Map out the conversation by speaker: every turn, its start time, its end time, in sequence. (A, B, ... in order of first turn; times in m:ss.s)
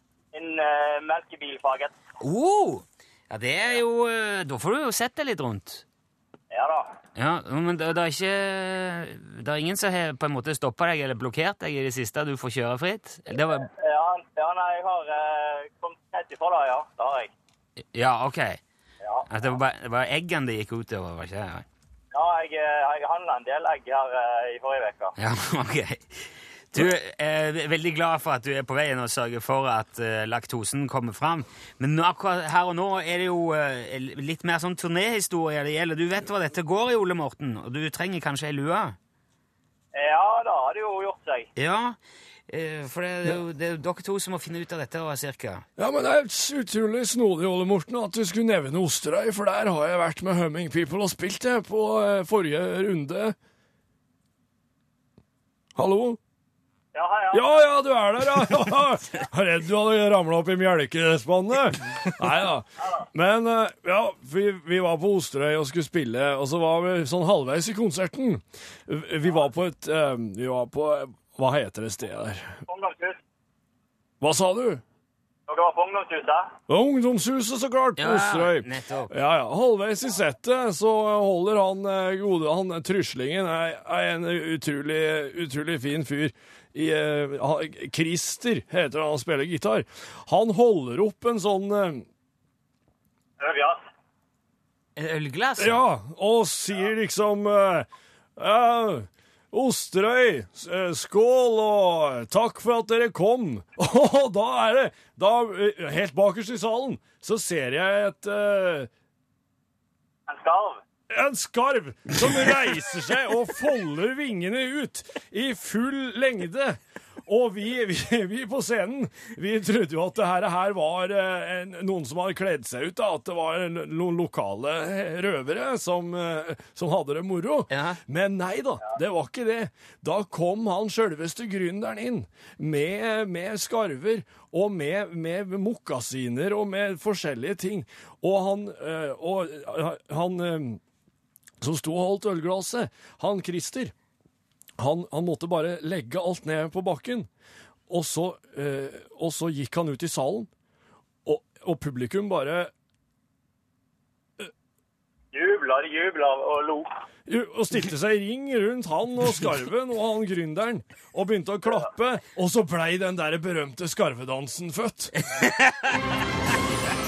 0:00.3-0:02.0 A
0:02.2-0:05.8 B
0:06.5-0:06.9 A
0:07.2-0:13.7 B
0:13.8-0:17.3 A
0:17.9-0:18.6 B
0:19.3-0:21.7 B
0:22.1-0:25.1 A
0:25.2-0:26.2 B
0:26.7-0:39.0 B
0:39.9-0:41.5 A
0:41.6-0:42.0 B
0:42.5-0:45.6 B
0:45.8-0:53.4 C
0:55.8-0:56.2 C
0:56.9-0:57.7 A
0:57.3-1:12.6 C
1:12.7-1:13.2 A
1:14.2-1:14.8 C
1:15.5-1:16.6 A
1:16.7-1:32.0 C
1:18.0-1:19.1 B
1:33.4-1:33.8 A
1:35.0-1:35.8 B
1:35.6-1:48.9 C
1:50.3-1:50.8 A
1:51.1-2:20.8 C
2:07.7-2:08.0 B
2:21.6-2:23.9 C
2:24.8-2:27.3 C
2:27.9-2:30.5 C
2:31.2-2:32.7 C
2:35.3-2:36.9 A
2:37.3-2:45.1 C
2:45.2-2:46.2 B